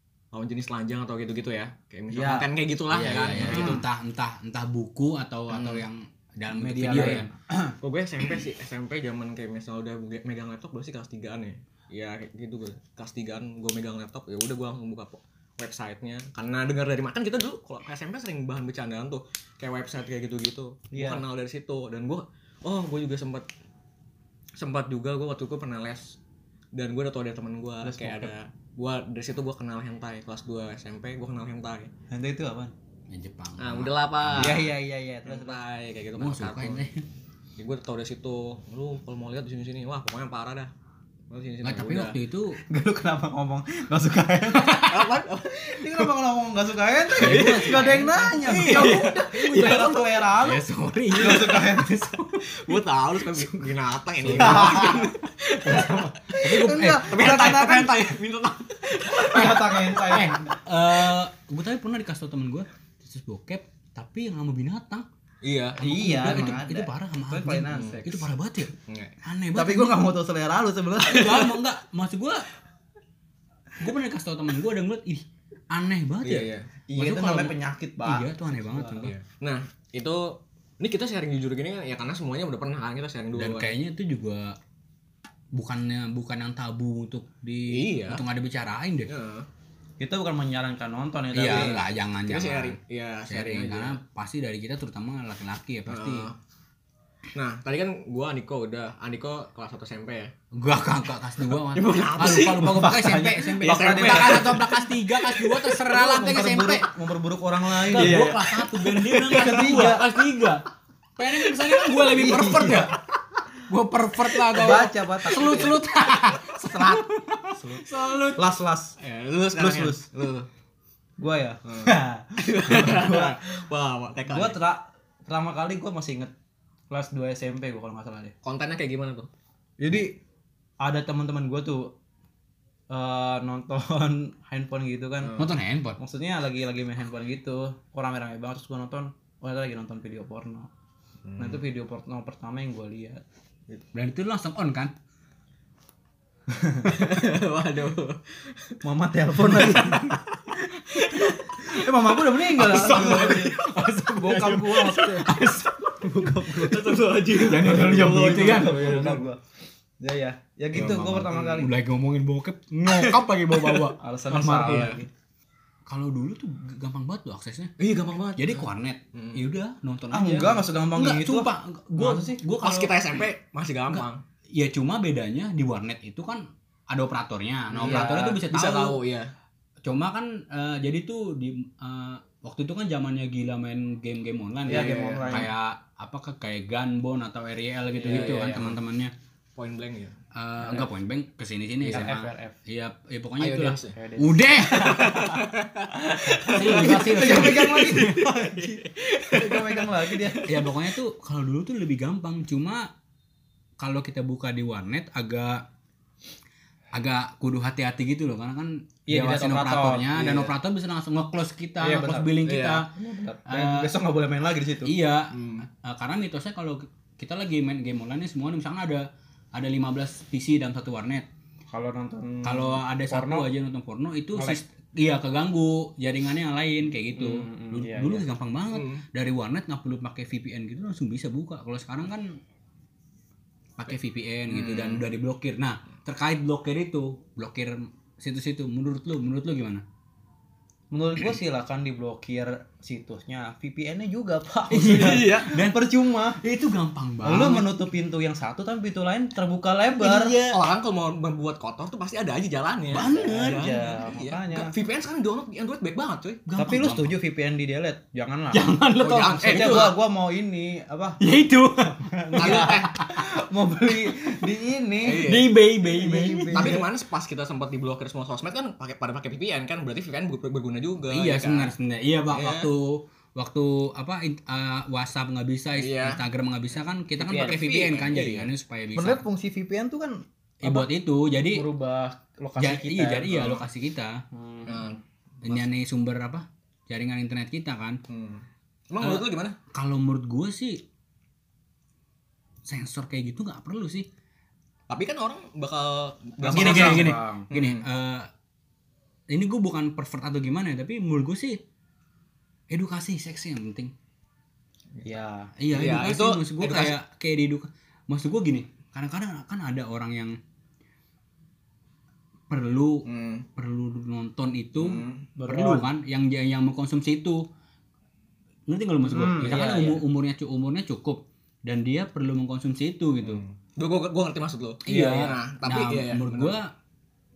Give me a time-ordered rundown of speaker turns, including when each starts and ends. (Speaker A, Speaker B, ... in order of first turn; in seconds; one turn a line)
Speaker A: 0.3-3.8
Speaker B: 2.1-2.5
Speaker C: 2.9-7.3
Speaker B: 3.4-3.8
Speaker A: 5.5-5.8
Speaker B: 6.5-7.8
Speaker A: 6.9-7.2
Speaker A: 7.8-23.4
Speaker B: 20.9-21.2
Speaker A: 24.6-26.2
Speaker A: 26.7-31.9
Speaker B: 27.8-28.3
Speaker B: 32.1-32.7
Speaker C: 33.1-34.7
Speaker A: 33.6-34.7
Speaker B: 34.4-35.6
Speaker A: 35.2-36.8
Speaker C: 36.1-37.0
Speaker A: 37.6-40.7
Speaker A: 41.3-42.1
Speaker C: 41.6-42.6
Speaker B: 42.7-52.5
Speaker A: 44.6-46.1
Speaker A: 47.1-50.0
Speaker C: 47.1-51.7
Speaker A: 51.2-56.3
Speaker C: 54.2-55.1
Speaker B: 54.3-55.1
Speaker B: 55.6-58.0
Speaker C: 56.3-57.6
Speaker A: 57.0-60.2
Speaker B: 59.2-60.4
Speaker C: 59.4-65.0
Speaker A: 65.4-65.8
Speaker B: 65.8-68.2
Speaker C: 65.8-70.0
Speaker A: 67.7-68.0
Speaker A: 68.8-69.2
Speaker B: 69.5-71.5
Speaker C: 71.0-72.5
Speaker A: 71.1-71.5
Speaker C: 73.8-79.1
Speaker A: 76.2-76.7
Speaker B: 76.9-79.1
Speaker A: 79.0-83.7
Speaker C: 83.3-84.6
Speaker C: 85.5-89.1
Speaker A: 87.7-88.2
Speaker A: 89.1-89.5
Speaker B: 90.0-91.8
Speaker C: 91.3-96.3
Speaker A: 91.4-94.0
Speaker A: 95.9-96.4
Speaker A: 97.3-100.3
Speaker C: 100.5-106.9
Speaker A: 101.6-105.8
Speaker B: 102.7-104.5
Speaker B: 105.9-108.3
Speaker C: 107.8-110.6
Speaker A: 107.9-109.9
Speaker B: 109.2-110.1
Speaker C: 111.2-113.0
Speaker B: 112.0-113.0
Speaker C: 113.7-118.4
Speaker B: 114.5-115.8
Speaker A: 116.5-117.1
Speaker B: 117.6-119.0
Speaker A: 119.0-120.5
Speaker B: 119.5-120.1
Speaker B: 121.2-123.6
Speaker A: 121.6-124.6
Speaker B: 124.3-126.3
Speaker B: 126.9-128.3
Speaker A: 128.4-129.3
Speaker B: 129.8-130.2
Speaker B: 130.8-131.9
Speaker B: 132.9-135.4
Speaker A: 135.2-135.5
Speaker C: 135.4-136.0
Speaker B: 136.0-140.7
Speaker A: 141.2-141.6
Speaker B: 141.4-143.2
Speaker C: 143.9-144.9
Speaker B: 146.5-146.9
Speaker A: 146.8-148.8
Speaker B: 148.8-150.2
Speaker A: 149.4-155.7
Speaker B: 151.6-155.3
Speaker C: 152.6-153.6
Speaker C: 155.2-155.7
Speaker B: 156.0-159.4
Speaker A: 156.5-159.2
Speaker C: 157.3-159.2
Speaker B: 160.0-161.7
Speaker C: 160.7-165.0
Speaker A: 162.9-165.0
Speaker B: 164.0-165.1
Speaker C: 165.9-167.7
Speaker A: 167.8-169.4
Speaker C: 168.4-173.3
Speaker B: 170.1-172.4
Speaker A: 172.6-174.2
Speaker C: 173.9-179.0
Speaker A: 177.7-179.3
Speaker B: 177.8-178.4
Speaker C: 179.8-189.1
Speaker A: 184.7-185.4
Speaker B: 184.7-185.5
Speaker B: 187.9-188.7
Speaker A: 188.0-188.7
Speaker A: 189.6-190.2
Speaker C: 190.3-195.4
Speaker B: 191.8-192.6
Speaker A: 193.4-193.9
Speaker B: 193.9-195.2
Speaker A: 194.6-200.8
Speaker B: 195.9-200.5
Speaker C: 196.5-198.2
Speaker C: 200.4-202.9
Speaker C: 203.8-205.6
Speaker C: 206.9-212.9
Speaker B: 209.1-210.5
Speaker B: 211.8-212.3
Speaker A: 212.4-212.9
Speaker B: 212.9-214.9
Speaker C: 213.5-213.9
Speaker C: 214.8-221.3
Speaker A: 215.3-215.7
Speaker B: 221.7-223.5
Speaker C: 222.4-232.4
Speaker B: 227.2-228.2
Speaker A: 228.7-229.0
Speaker C: 233.8-239.8
Speaker A: 234.5-235.1
Speaker B: 240.9-246.4
Speaker C: 244.7-247.8
Speaker A: 244.8-245.5
Speaker B: 247.2-250.4
Speaker A: 250.0-256.5
Speaker C: 250.1-250.6
Speaker C: 252.9-253.7
Speaker B: 253.1-254.7
Speaker C: 256.4-257.1
Speaker B: 256.6-258.7
Speaker C: 258.5-259.9
Speaker A: 258.9-260.0
Speaker B: 259.4-261.2
Speaker C: 261.2-263.2
Speaker B: 261.9-266.9
Speaker A: 262.4-263.0
Speaker A: 265.0-265.5
Speaker C: 265.1-266.8
Speaker A: 266.5-271.7
Speaker C: 271.1-279.2
Speaker A: 272.3-272.7
Speaker A: 275.8-276.2
Speaker B: 277.2-277.5
Speaker A: 277.3-278.5
Speaker B: 278.9-283.6
Speaker C: 280.6-281.7
Speaker C: 282.6-284.2
Speaker B: 284.3-284.9
Speaker A: 284.7-285.7
Speaker C: 285.4-288.0
Speaker A: 288.1-289.6
Speaker C: 289.0-290.8
Speaker C: 292.6-294.1
Speaker A: 294.9-297.8
Speaker B: 296.4-297.5
Speaker C: 296.5-298.3
Speaker C: 299.3-301.6
Speaker C: 302.7-303.9
Speaker B: 305.0-305.5
Speaker C: 305.6-310.4
Speaker A: 305.7-306.9
Speaker C: 312.5-317.4
Speaker A: 313.1-313.4
Speaker A: 314.8-315.3
Speaker B: 315.4-315.9
Speaker C: 318.7-323.4
Speaker B: 319.1-320.0
Speaker A: 323.2-326.5
Speaker C: 324.8-326.7